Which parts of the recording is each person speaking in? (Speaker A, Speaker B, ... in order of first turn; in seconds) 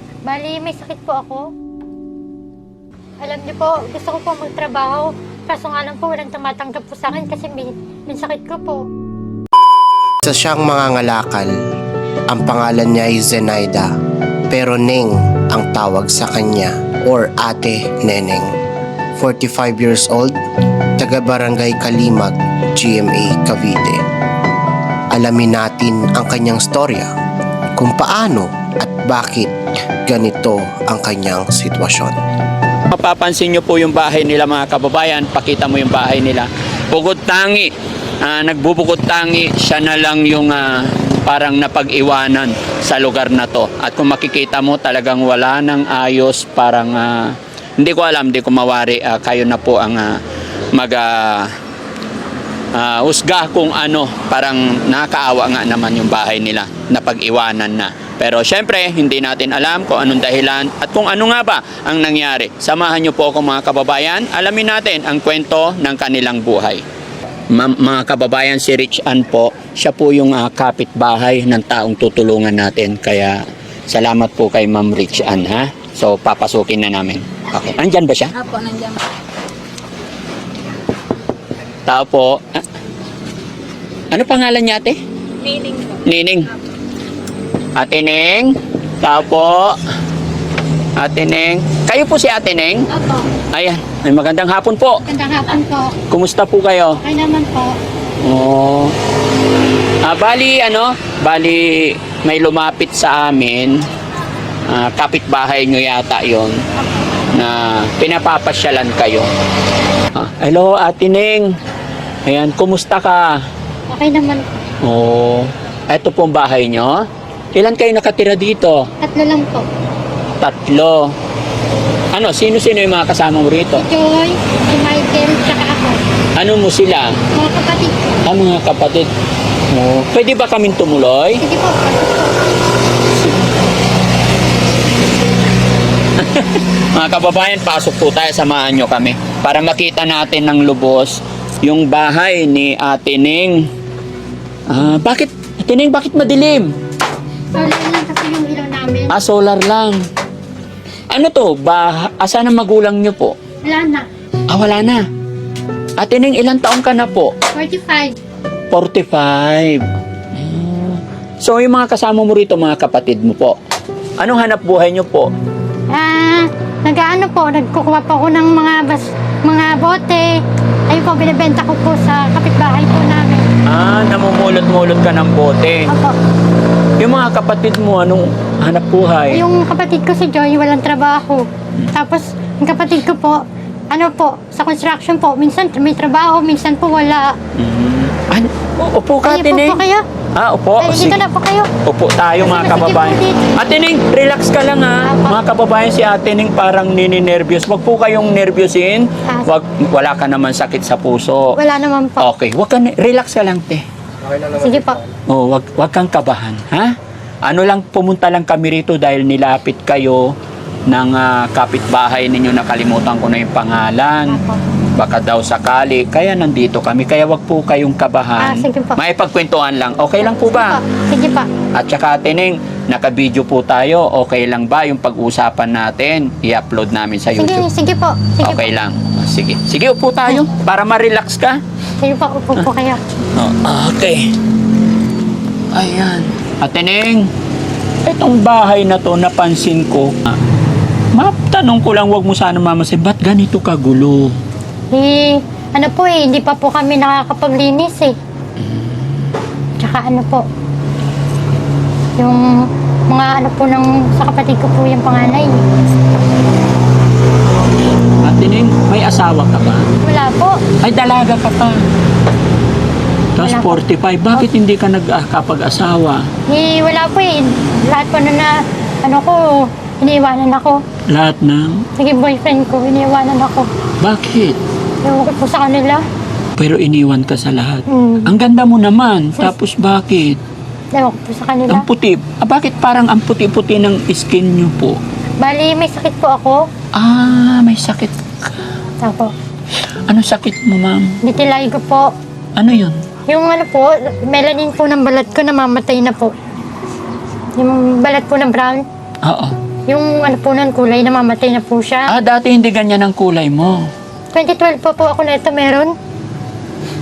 Speaker A: 0.2-1.5, 3.2-8.9, 95.0-96.0, 97.0-97.8, 113.9-114.5, 119.0-119.7, 123.8-126.0, 127.3-128.2, 131.4-132.5, 147.5-149.1, 153.6-154.1, 157.5-158.1, 165.9-173.5, 175.9-176.2, 179.3-187.4, 189.2-190.1, 190.8-191.7, 192.4-193.5, 195.0-195.4, 199.2-199.5, 201.6-202.2, 204.5-205.0, 214.3-214.6, 218.4-219.0, 220.2-221.5, 227.3-228.7, 232.0-233.0, 244.9-248.2, 249.8-250.5, 252.2-255.6, 260.0-260.6, 263.4-263.8, 266.5-270.8, 272.0-273.7, 275.0-276.0, 277.9-278.3, 280.9-281.9, 285.4-286.6, 289.0-289.3, 291.2-292.1, 293.3-296.3, 297.6-298.8, 299.9-302.1, 304.3-305.9
Speaker B: 10.2-11.5, 12.3-13.9, 14.5-18.5, 19.2-20.4, 21.0-24.0, 25.1-27.1, 27.8-32.1
Speaker C: 32.9-50.2, 50.7-51.5, 52.7-66.8, 67.5-78.6, 81.8-82.6, 84.1-85.0, 85.8-86.5, 87.7-89.8, 91.0-92.9, 93.5-95.0, 96.1-97.0, 98.2-98.9, 100.0-103.9, 104.7-106.6, 107.3-109.3, 110.1-111.5, 112.2-113.5, 114.8-118.9, 120.4-121.1, 122.1-123.8, 126.3-127.2, 128.2-129.1, 129.7-131.4, 136.2-143.7, 144.7-146.7, 149.1-150.0, 151.1-153.3, 154.5-155.1, 156.0-157.3, 158.7-163.6, 164.2-165.3, 173.7-175.9, 177.0-179.4, 187.5-189.8, 190.3-191.2, 191.8-201.6, 202.2-203.8, 205.3-206.9, 207.4-210.3, 210.9-214.4, 214.9-220.8, 221.7-227.6, 228.4-231.6, 233.3-234.3, 235.7-237.3, 238.0-240.4, 241.1-244.4, 258.2-259.9, 260.8-261.8, 263.4-266.3, 271.1-271.9, 274.0-274.6, 276.6-280.4, 281.7-285.0, 286.9-288.6, 290.1-291.2, 292.6-293.1, 299.2-299.6, 302.1-303.9